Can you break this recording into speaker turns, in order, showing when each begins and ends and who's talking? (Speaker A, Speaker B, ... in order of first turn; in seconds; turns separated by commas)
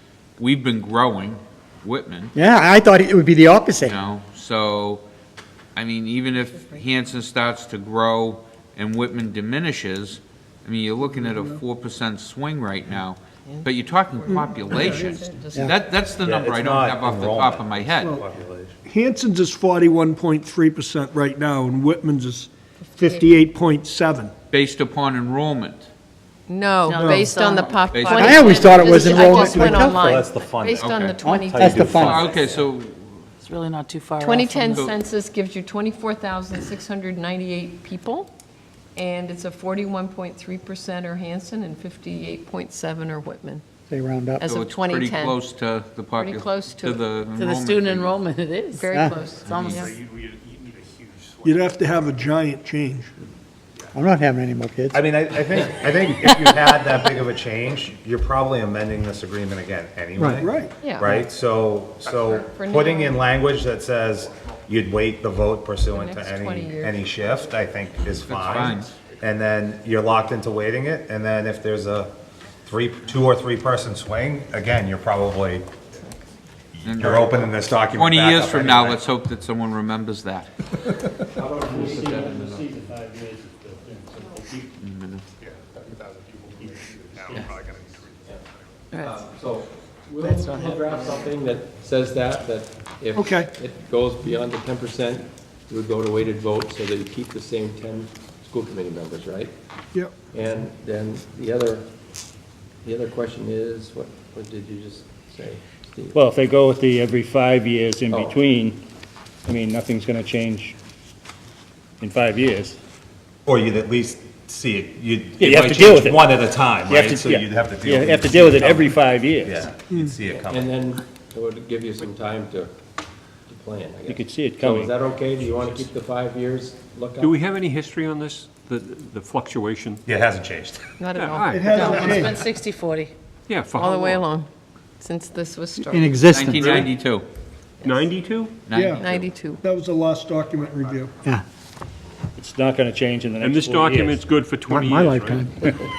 Speaker A: 0.4-2.3, Speaker B: 2.3-4.0, Speaker A: 3.8-5.0, Speaker A: 5.7-18.1, Speaker C: 11.1-11.6, Speaker D: 14.2-15.7, Speaker C: 14.3-15.2, Speaker E: 16.2-18.7, Speaker C: 18.8-24.3, Speaker A: 24.5-25.9, Speaker D: 26.5-32.6, Speaker F: 26.9-27.9, Speaker C: 26.9-27.4, Speaker B: 28.1-30.3, Speaker F: 29.1-29.7, Speaker E: 29.8-32.4, Speaker A: 30.8-31.2, Speaker B: 31.2-32.3, Speaker A: 32.1-33.2, Speaker F: 33.5-34.9, Speaker D: 34.2-38.3, Speaker D: 39.0-43.6, Speaker B: 43.9-44.5, Speaker D: 44.4-45.4, Speaker A: 44.4-48.1, Speaker D: 46.1-47.0, Speaker F: 47.3-49.8, Speaker D: 48.8-49.9, Speaker B: 48.9-49.2, Speaker A: 49.4-49.8, Speaker G: 49.6-51.5, Speaker C: 51.4-53.1, Speaker B: 53.9-55.0, Speaker E: 54.9-75.7, Speaker B: 60.1-60.5, Speaker C: 60.4-60.7, Speaker D: 60.8-61.2, Speaker D: 62.1-63.3, Speaker D: 65.9-67.4, Speaker A: 68.2-69.0, Speaker E: 76.8-79.0, Speaker A: 76.8-77.3, Speaker A: 77.9-80.5, Speaker H: 81.3-82.3, Speaker I: 81.5-84.4, Speaker A: 81.9-82.6, Speaker A: 84.8-85.2, Speaker A: 86.0-88.0, Speaker I: 86.8-87.5, Speaker F: 88.9-89.2, Speaker H: 89.0-99.5, Speaker F: 90.2-91.2, Speaker C: 93.1-93.5, Speaker H: 100.3-101.9, Speaker H: 102.8-106.2, Speaker I: 106.1-108.8, Speaker H: 108.1-108.4, Speaker I: 109.5-110.8, Speaker I: 112.0-112.8, Speaker E: 113.5-120.7, Speaker I: 115.4-116.2, Speaker I: 116.8-119.7, Speaker H: 120.3-122.7, Speaker H: 123.5-127.4, Speaker I: 124.0-124.9, Speaker G: 125.4-125.9, Speaker G: 127.2-130.0, Speaker E: 130.1-130.8, Speaker D: 131.0-132.2, Speaker G: 131.1-132.1, Speaker C: 131.5-132.4, Speaker B: 131.7-132.1, Speaker F: 132.1-133.1, Speaker G: 133.5-134.3, Speaker D: 133.8-134.5, Speaker D: 135.0-136.2, Speaker B: 135.9-136.9, Speaker A: 136.3-137.2, Speaker G: 136.6-136.9, Speaker G: 137.8-139.4, Speaker A: 138.7-139.1, Speaker C: 138.7-139.1, Speaker D: 139.0-139.6, Speaker C: 139.6-141.1, Speaker I: 142.3-144.2, Speaker G: 143.4-145.9, Speaker B: 144.7-145.7